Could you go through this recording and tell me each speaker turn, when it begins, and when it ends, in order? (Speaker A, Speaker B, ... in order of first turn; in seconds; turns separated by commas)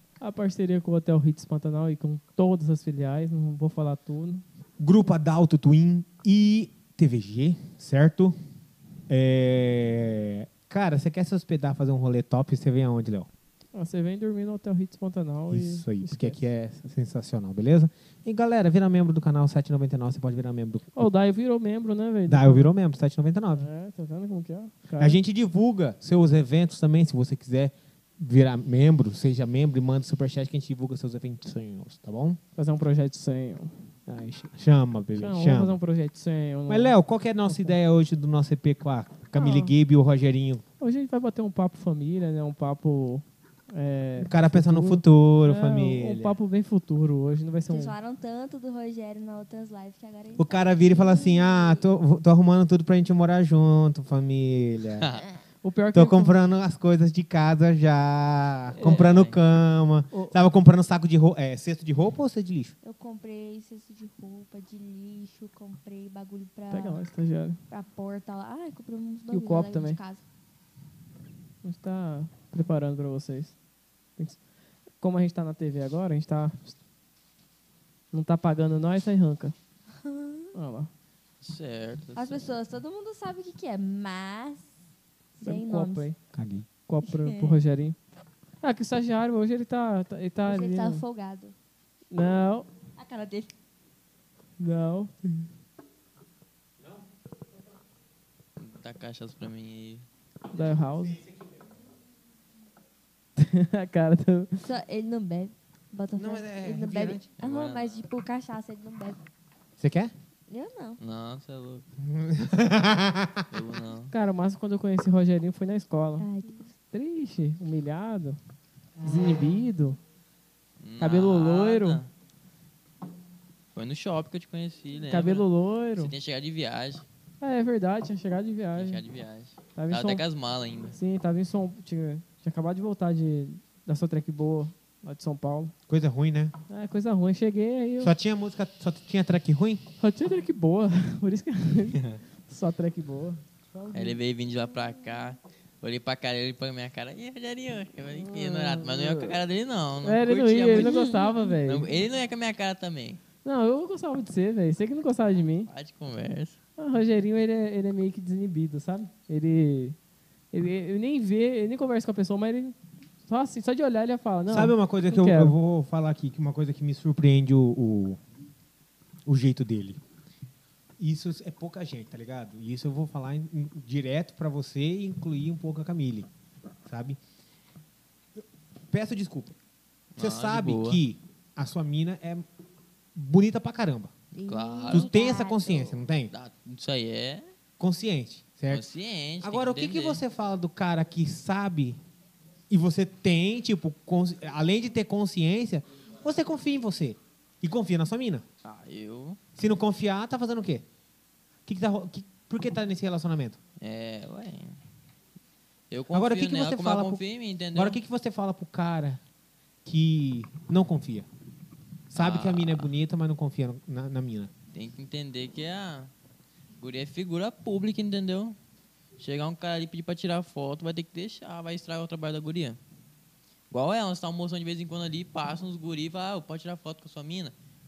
Speaker A: 0.2-4.4, Speaker B: 4.8-8.3, Speaker B: 9.1-13.3, Speaker A: 13.7-16.4, Speaker B: 15.5-20.9, Speaker A: 20.9-22.7, Speaker B: 22.3-23.7, Speaker A: 23.6-25.2, Speaker B: 25.0-32.4, Speaker A: 32.5-33.7, Speaker B: 34.1-35.8, Speaker A: 35.1-36.9, Speaker B: 36.7-40.6, Speaker A: 37.5-37.7, Speaker A: 39.3-39.7, Speaker A: 40.8-48.0, Speaker B: 44.2-46.3, Speaker C: 47.7-51.8, Speaker B: 50.4-55.1, Speaker D: 55.0-55.2, Speaker A: 55.6-56.4, Speaker B: 55.9-62.7, Speaker A: 58.8-59.1, Speaker D: 58.8-59.4, Speaker A: 60.1-60.4, Speaker C: 62.8-67.0, Speaker A: 66.7-67.6, Speaker C: 67.7-70.2, Speaker A: 69.3-70.0, Speaker A: 71.6-73.5, Speaker A: 75.0-76.7, Speaker A: 78.1-79.5, Speaker C: 80.0-80.5, Speaker A: 80.5-80.9, Speaker D: 81.4-82.5, Speaker C: 82.2-84.7, Speaker C: 85.4-86.1, Speaker A: 85.4-86.2, Speaker B: 86.3-86.7, Speaker A: 86.9-88.0, Speaker C: 87.0-87.6, Speaker A: 88.6-91.0, Speaker C: 90.5-91.5, Speaker A: 92.1-92.7, Speaker C: 93.0-93.5, Speaker A: 94.6-95.5, Speaker D: 98.6-100.0, Speaker A: 100.5-101.2, Speaker A: 103.4-104.6, Speaker C: 104.6-109.2, Speaker B: 106.2-107.2, Speaker D: 107.4-108.0, Speaker B: 109.8-110.1, Speaker C: 110.5-111.0, Speaker D: 111.0-111.8, Speaker B: 112.0-113.5, Speaker D: 113.5-114.1, Speaker A: 114.1-116.3, Speaker C: 116.2-116.7, Speaker A: 116.9-118.4, Speaker A: 119.0-120.0, Speaker D: 120.8-122.1, Speaker A: 121.0-122.0, Speaker D: 123.7-127.0, Speaker A: 125.1-126.1, Speaker A: 127.4-129.0, Speaker D: 128.7-130.9, Speaker A: 129.7-130.2, Speaker A: 130.9-135.7, Speaker B: 135.9-136.5, Speaker A: 136.7-138.1, Speaker B: 138.0-139.8, Speaker A: 140.0-144.2, Speaker D: 143.9-151.0, Speaker A: 148.2-149.4, Speaker A: 150.0-151.9, Speaker C: 150.7-151.6, Speaker D: 151.6-153.2, Speaker A: 153.4-155.7, Speaker D: 155.7-156.6, Speaker A: 156.8-159.9, Speaker A: 160.5-165.5, Speaker B: 164.5-168.2, Speaker B: 169.3-170.0, Speaker B: 171.0-176.3, Speaker B: 176.8-177.2, Speaker B: 178.4-179.5, Speaker D: 180.1-181.0, Speaker B: 180.2-182.4, Speaker B: 183.1-184.1, Speaker C: 184.3-185.9, Speaker D: 184.4-185.2, Speaker B: 184.9-186.3, Speaker D: 186.3-187.5, Speaker B: 187.8-188.8, Speaker D: 188.7-190.2, Speaker B: 189.4-192.0, Speaker B: 192.7-198.4, Speaker D: 198.6-199.4, Speaker B: 199.6-200.8, Speaker B: 201.7-203.6, Speaker D: 203.8-204.8, Speaker D: 205.9-208.0, Speaker B: 206.1-207.2, Speaker B: 207.7-209.2, Speaker B: 209.8-211.3, Speaker B: 212.1-214.5, Speaker D: 212.1-212.9, Speaker D: 214.7-216.1, Speaker D: 216.8-218.6, Speaker D: 219.2-222.8, Speaker D: 223.7-227.5